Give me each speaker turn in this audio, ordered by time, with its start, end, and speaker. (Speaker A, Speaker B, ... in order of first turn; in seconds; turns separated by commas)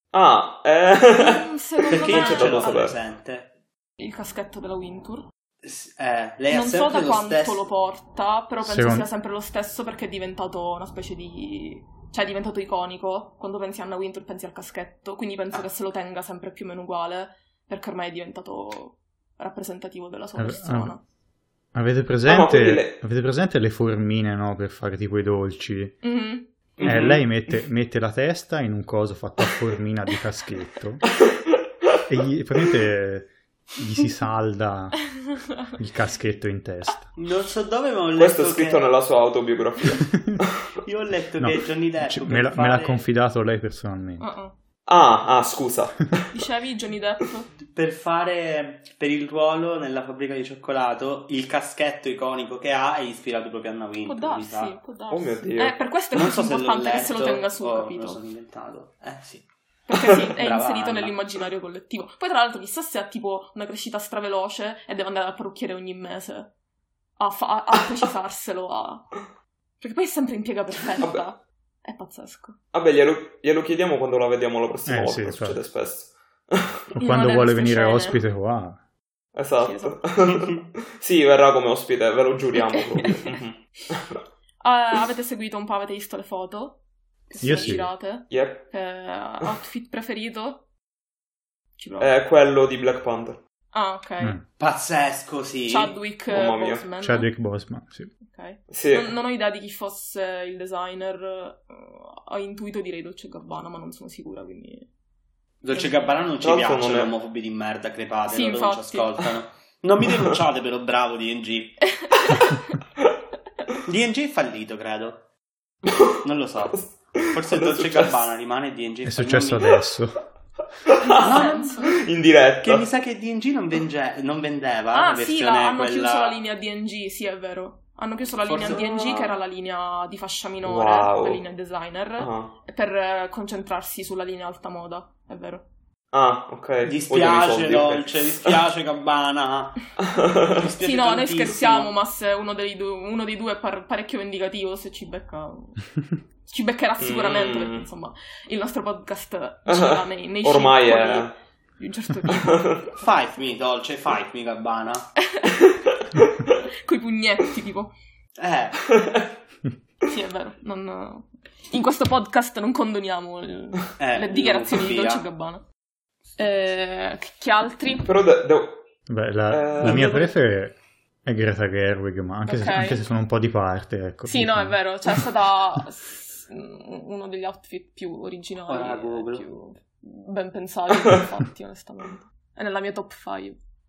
Speaker A: 0.1-3.0, Speaker B: 1.1-2.9, Speaker C: 1.9-3.5, Speaker B: 4.0-5.3, Speaker C: 5.6-7.7, Speaker B: 6.5-21.0, Speaker D: 8.6-9.1, Speaker D: 20.4-20.9, Speaker D: 21.7-26.0, Speaker A: 22.3-22.9, Speaker B: 26.0-26.5, Speaker A: 26.8-27.3, Speaker D: 26.8-31.1, Speaker D: 32.1-37.1, Speaker C: 37.2-39.0, Speaker A: 38.2-40.5, Speaker C: 40.8-43.0, Speaker D: 41.4-44.3, Speaker B: 44.2-44.5, Speaker A: 44.9-46.3, Speaker B: 46.3-47.5, Speaker C: 47.6-54.8, Speaker B: 54.1-58.2, Speaker A: 55.1-55.8, Speaker C: 56.1-59.5, Speaker B: 59.9-66.5, Speaker C: 60.0-61.2, Speaker B: 67.2-69.1, Speaker B: 69.8-72.6, Speaker A: 72.7-76.8, Speaker D: 74.9-75.6, Speaker D: 76.9-78.8, Speaker B: 77.0-78.2, Speaker A: 79.3-84.0, Speaker B: 79.6-80.5, Speaker B: 82.6-83.3, Speaker B: 84.6-86.8, Speaker B: 87.3-90.6, Speaker D: 87.4-87.9, Speaker A: 88.3-88.7, Speaker B: 91.8-92.1, Speaker A: 92.0-93.4, Speaker B: 93.7-94.4, Speaker C: 94.6-96.0, Speaker B: 95.7-97.3, Speaker A: 96.3-96.9, Speaker D: 97.0-98.1, Speaker B: 98.2-104.9, Speaker A: 98.7-99.1, Speaker C: 105.6-112.0, Speaker B: 105.7-106.1, Speaker A: 106.4-107.1, Speaker B: 108.3-109.2, Speaker B: 112.0-112.6, Speaker C: 113.8-115.3, Speaker A: 115.9-116.1, Speaker C: 116.2-119.8, Speaker A: 116.7-118.2, Speaker D: 119.0-120.2, Speaker A: 121.0-121.3, Speaker C: 121.1-122.0, Speaker B: 121.1-122.0, Speaker A: 121.9-122.8, Speaker C: 122.6-126.4, Speaker B: 124.9-135.7, Speaker C: 128.5-128.8, Speaker A: 128.8-129.3, Speaker A: 130.6-131.4, Speaker A: 132.2-132.5, Speaker A: 136.1-138.6, Speaker C: 136.8-139.9, Speaker A: 140.1-140.6, Speaker C: 140.5-141.9, Speaker B: 140.8-145.9, Speaker B: 146.5-152.8, Speaker A: 147.0-147.9, Speaker A: 149.7-151.3, Speaker A: 152.3-152.9, Speaker C: 153.0-155.1, Speaker A: 156.2-156.5, Speaker B: 156.8-157.9, Speaker C: 158.4-158.8, Speaker A: 158.9-159.2, Speaker B: 160.1-165.6, Speaker C: 164.0-165.3, Speaker B: 166.4-168.1, Speaker A: 168.1-168.8, Speaker D: 169.1-174.8, Speaker A: 169.5-170.3, Speaker B: 172.4-173.0, Speaker B: 174.3-183.6, Speaker C: 178.7-179.5